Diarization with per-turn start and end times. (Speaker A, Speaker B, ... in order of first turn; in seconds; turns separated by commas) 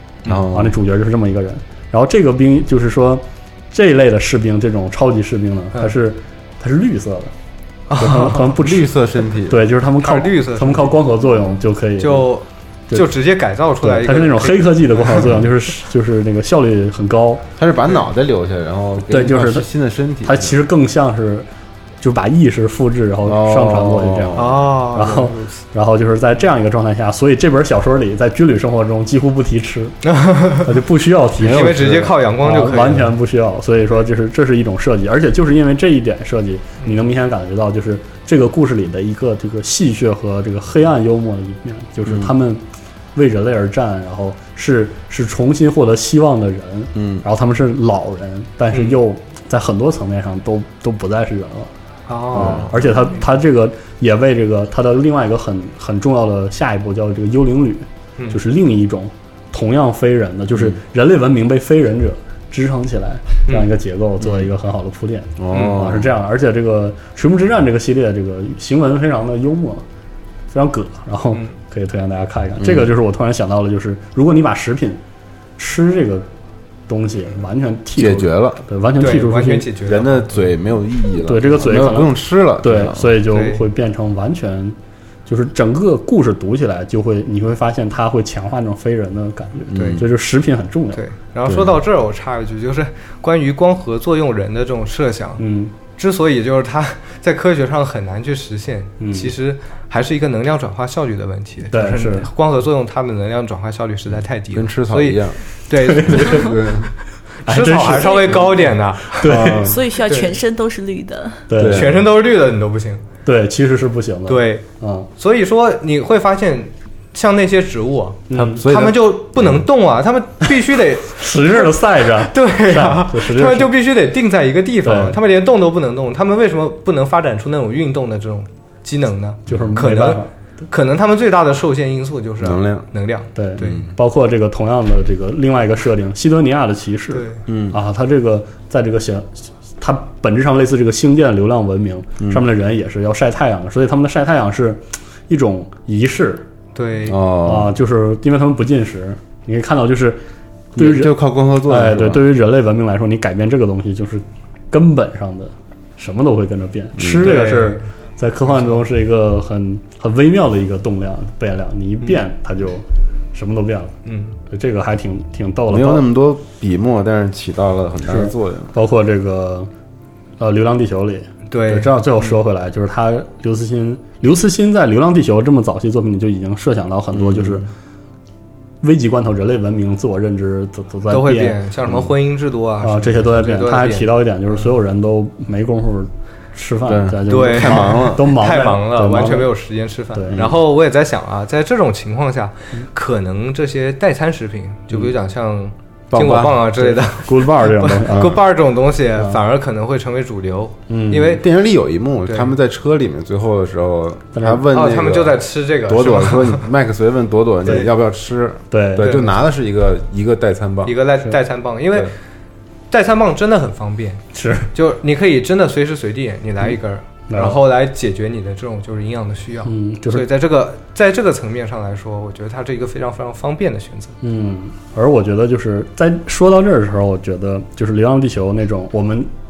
Speaker A: 0.2-0.8, Speaker B: 0.5-7.3, Speaker C: 7.9-8.5, Speaker B: 8.0-8.8, Speaker A: 8.4-9.6, Speaker B: 9.5-12.3, Speaker C: 10.0-11.0, Speaker C: 12.0-15.3, Speaker B: 13.8-17.4, Speaker A: 17.6-20.6, Speaker B: 19.1-19.7, Speaker B: 20.2-21.5, Speaker B: 22.0-29.9, Speaker A: 23.2-24.7, Speaker C: 24.4-25.6, Speaker C: 30.0-30.7, Speaker B: 30.6-42.6, Speaker C: 31.4-33.1, Speaker A: 42.0-42.3, Speaker B: 43.1-51.7, Speaker A: 46.9-47.2, Speaker C: 48.7-49.0, Speaker C: 52.1-52.7, Speaker B: 52.3-69.8, Speaker A: 52.4-52.7, Speaker A: 64.2-64.5, Speaker A: 65.4-66.1, Speaker C: 65.5-65.8, Speaker B: 70.5-75.0, Speaker A: 72.6-72.9, Speaker B: 75.6-76.3, Speaker B: 76.9-79.7, Speaker A: 78.0-78.6, Speaker C: 79.0-80.5, Speaker A: 79.8-83.2, Speaker B: 81.2-84.7, Speaker C: 83.3-83.7, Speaker B: 85.2-91.0, Speaker A: 89.7-90.0, Speaker C: 90.9-106.5, Speaker A: 91.5-91.8, Speaker B: 95.4-95.7, Speaker B: 99.0-99.3, Speaker B: 101.7-102.3, Speaker A: 104.5-105.4, Speaker B: 105.8-106.5, Speaker A: 106.1-106.9, Speaker B: 107.5-108.6, Speaker C: 107.5-110.4, Speaker D: 107.8-108.5, Speaker B: 109.1-109.6, Speaker A: 109.2-109.8, Speaker D: 109.6-111.4, Speaker B: 111.5-111.9, Speaker A: 111.6-112.0, Speaker C: 111.6-113.0, Speaker B: 113.2-115.1, Speaker C: 114.3-114.7, Speaker C: 115.2-133.8, Speaker B: 118.3-118.6, Speaker A: 118.4-119.6, Speaker B: 121.1-123.7, Speaker B: 124.8-125.2, Speaker B: 129.5-130.3, Speaker A: 132.4-132.8, Speaker B: 133.3-146.4, Speaker C: 137.1-137.4, Speaker A: 137.5-137.8, Speaker C: 146.7-147.2, Speaker A: 147.1-147.7, Speaker B: 147.4-150.2, Speaker A: 150.7-152.2, Speaker B: 150.8-163.9, Speaker A: 157.0-157.3, Speaker C: 157.2-157.8, Speaker C: 158.5-158.8, Speaker C: 164.0-164.4, Speaker B: 164.5-166.1, Speaker A: 165.7-168.7, Speaker B: 168.1-169.7, Speaker B: 170.4-177.7, Speaker C: 171.5-172.4, Speaker A: 177.1-177.6, Speaker B: 178.8-181.6, Speaker C: 181.1-184.7, Speaker B: 182.8-189.5, Speaker A: 186.9-188.3, Speaker C: 187.3-201.4, Speaker B: 190.1-190.4, Speaker A: 190.3-190.6, Speaker A: 196.1-196.6, Speaker B: 196.8-198.4, Speaker A: 198.1-198.4, Speaker B: 200.9-201.4, Speaker A: 201.4-210.9, Speaker C: 202.2-202.5, Speaker B: 204.3-204.6, Speaker C: 204.7-206.7, Speaker B: 208.7-209.2, Speaker C: 208.9-209.3, Speaker C: 210.8-212.1, Speaker C: 212.9-224.1, Speaker B: 214.3-214.7, Speaker B: 217.3-217.6, Speaker B: 219.6-220.2, Speaker B: 224.2-229.3